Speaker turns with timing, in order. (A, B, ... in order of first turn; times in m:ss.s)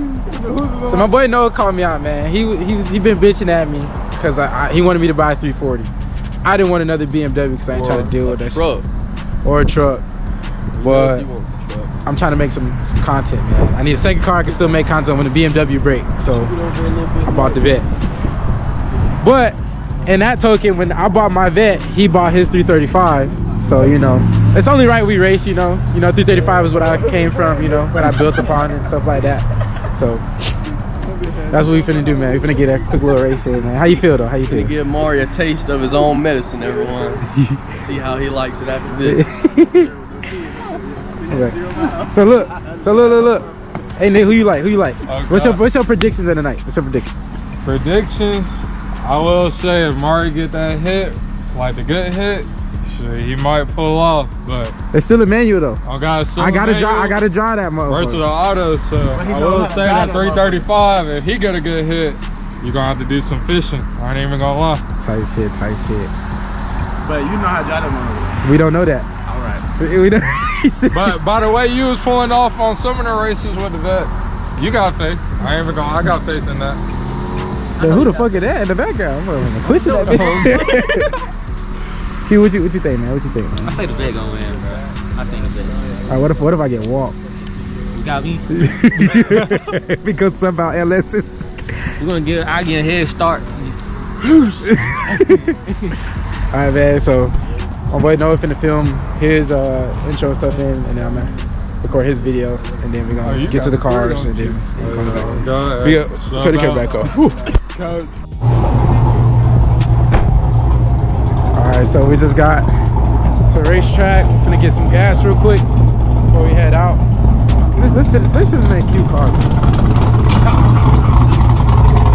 0:00.1-0:01.1 A
0:00.8-0:05.9 B
0:06.4-0:08.6 B
0:07.7-0:08.9 C
0:09.4-0:10.0 B
0:10.7-0:11.9 C
0:10.8-0:11.3 B
0:12.0-0:16.5 B
0:16.3-0:17.8 C
0:17.2-0:17.9 B
0:19.2-0:30.2 B
0:27.2-0:27.9 A
0:31.0-0:32.9 A
0:31.5-0:34.7 B
0:34.5-0:39.3 C
0:39.0-0:39.9 B
0:39.1-0:43.5 A
0:41.3-0:47.1 B
0:45.1-0:45.6 D
0:47.6-0:54.8 D
0:54.9-0:55.8 B
0:55.8-0:57.2 D
0:56.4-0:58.2 B
0:57.9-1:04.8 D
0:59.1-1:00.7 A
1:05.0-1:06.1 B
1:07.0-1:08.4 A
1:08.4-1:09.1 B
1:09.3-1:09.6 A
1:09.8-1:11.2 B
1:10.9-1:16.8 D
1:17.8-1:18.5 E
1:17.8-1:21.1 B
1:19.8-1:21.0 E
1:20.1-1:20.4 D
1:22.3-1:23.8 B
1:23.6-1:25.8 E
1:26.1-1:27.2 B
1:27.9-1:29.6 E
1:28.5-1:31.9 B
1:32.0-1:33.8 E
1:34.2-1:34.8 A
1:34.7-1:35.6 B
1:35.1-1:36.0 E
1:36.5-1:37.4 B
1:37.9-1:47.5 B
1:43.2-1:47.2 D
1:51.5-1:52.7 B
1:53.5-1:55.7 B
1:56.3-1:57.0 B
1:57.8-1:59.5 B